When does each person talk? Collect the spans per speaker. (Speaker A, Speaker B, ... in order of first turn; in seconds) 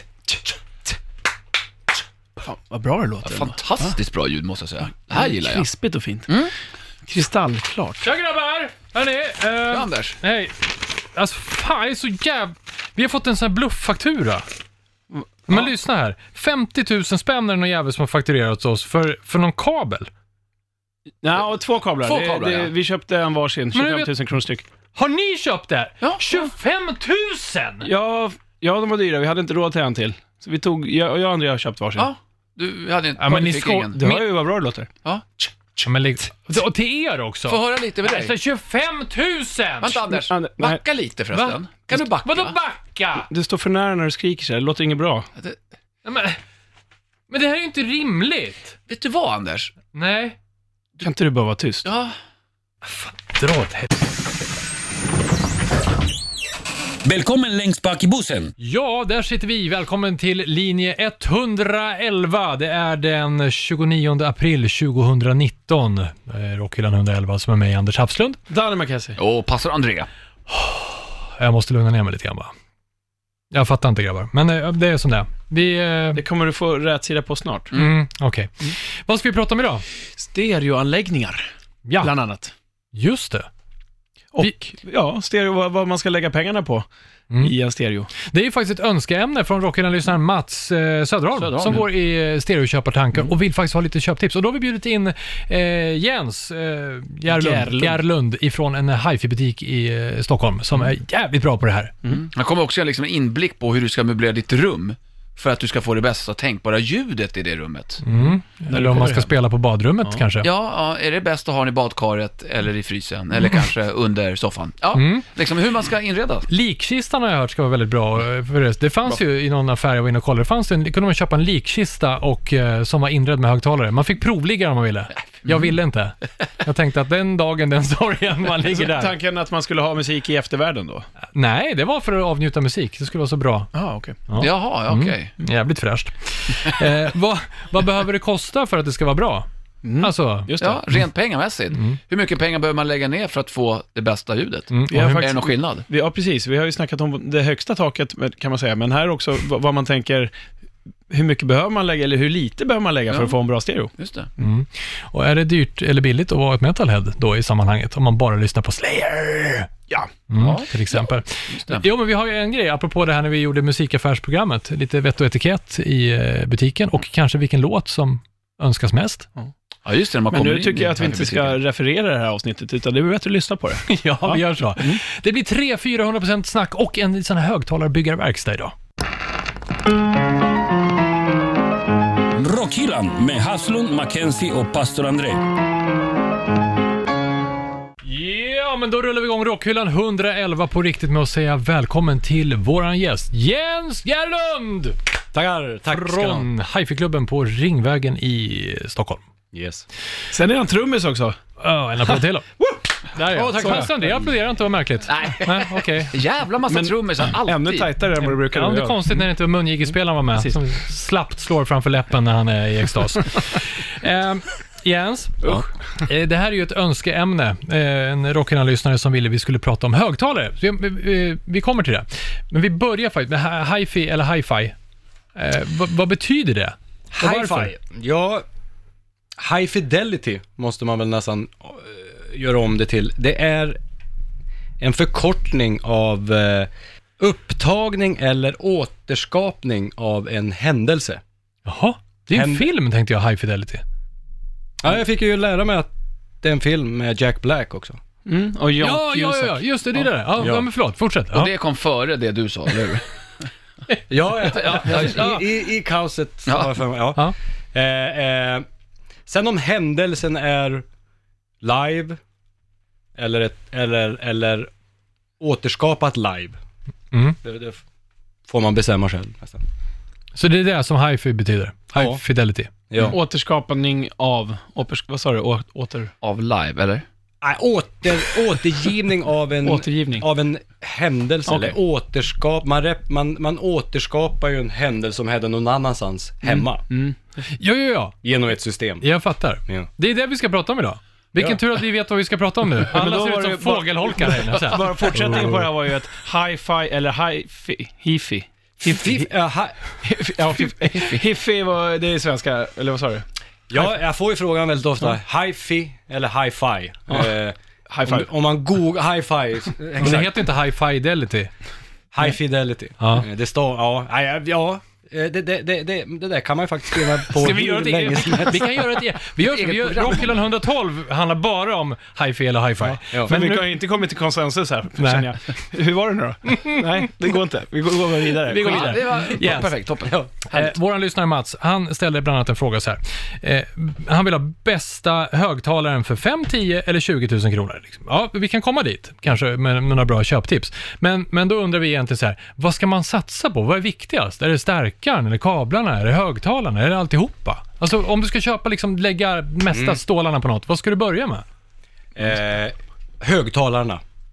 Speaker A: 2.4-3.9, 5.1-6.3, 7.0-8.1, 15.2-15.7, 21.2-24.6, 27.8-32.1, 33.9-34.9, 40.1-40.8, 43.3-45.3, 51.0-51.9, 68.5-69.2, 76.2-77.7, 80.2-82.5, 84.3-86.9, 87.4-88.1, 91.5-91.8, 97.3-98.0, 108.7-109.2, 128.7-131.1, 133.7-134.2, 139.8-140.8, 144.9-150.3, 151.1-153.9, 170.3-175.0, 200.3-201.4, 203.3-203.9, 206.7-209.2, 248.2-250.1, 273.1-276.1, 279.6-280.2, 281.5-281.7, 286.4-287.2, 292.9-299.2, 300.0-303.2, 307.9-308.3, 317.4-318.5, 323.2-329.0
Speaker B: 3.2-5.7, 9.7-10.2, 22.0-22.7, 32.0-34.0, 35.0-35.9, 37.5-38.3, 39.8-42.5, 48.9-49.7, 51.8-52.1, 69.2-70.1, 91.5-91.8, 102.1-108.0, 110.4-116.5, 134.4-135.3, 140.6-145.8, 153.1-153.3, 154.0-154.3, 160.4-161.8, 169.8-171.6, 205.1-207.9, 251.3-253.0, 254.7-255.2, 276.2-277.0, 319.4-320.4, 328.5-330.1
Speaker C: 8.0-14.4, 15.5-20.1, 23.7-24.1, 24.9-27.9, 33.2-34.2, 35.8-40.0, 41.3-43.3, 46.0-46.4, 47.3-48.7, 49.9-50.4, 52.8-53.9, 58.6-68.4, 70.5-72.5, 73.5-76.2, 77.7-79.8, 81.8-82.1, 82.9-83.5, 84.4-84.7, 88.2-101.9, 108.0-110.5, 114.9-115.2, 116.5-129.1, 131.3-133.7, 134.3-139.5, 140.0-140.5, 144.7-145.3, 154.4-159.7, 160.3-169.3, 173.9-178.7, 188.0-195.0, 195.9-199.2, 201.6-202.4, 203.1-206.1, 208.2-215.4, 216.0-224.7, 225.3-227.7, 241.7-243.8, 248.8-251.5, 254.6-255.4, 267.1-267.4, 270.3-272.7, 287.6-288.1, 289.0-295.6, 310.0-311.5, 313.0-313.2, 317.4-323.7, 325.0-325.3, 326.4-327.1, 328.5-329.4, 330.5-351.4
Speaker D: 57.0-58.5, 182.3-185.4
Speaker E: 195.3-196.5, 199.5-199.8, 227.1-228.4, 229.4-233.8, 234.8-236.7, 237.2-241.2, 242.3-242.7, 244.8-245.9, 246.4-248.0, 250.4-250.7, 254.1-258.6, 259.3-260.8, 261.6-262.2, 263.2-264.7, 265.4-266.6, 267.4-267.8, 268.5-269.6, 271.9-272.2, 272.9-273.2, 277.4-286.8, 288.2-289.1, 298.8-299.8, 303.7-310.4, 312.1-318.9, 323.1-323.4, 329.2-330.7, 349.7-350.0, 352.1-354.0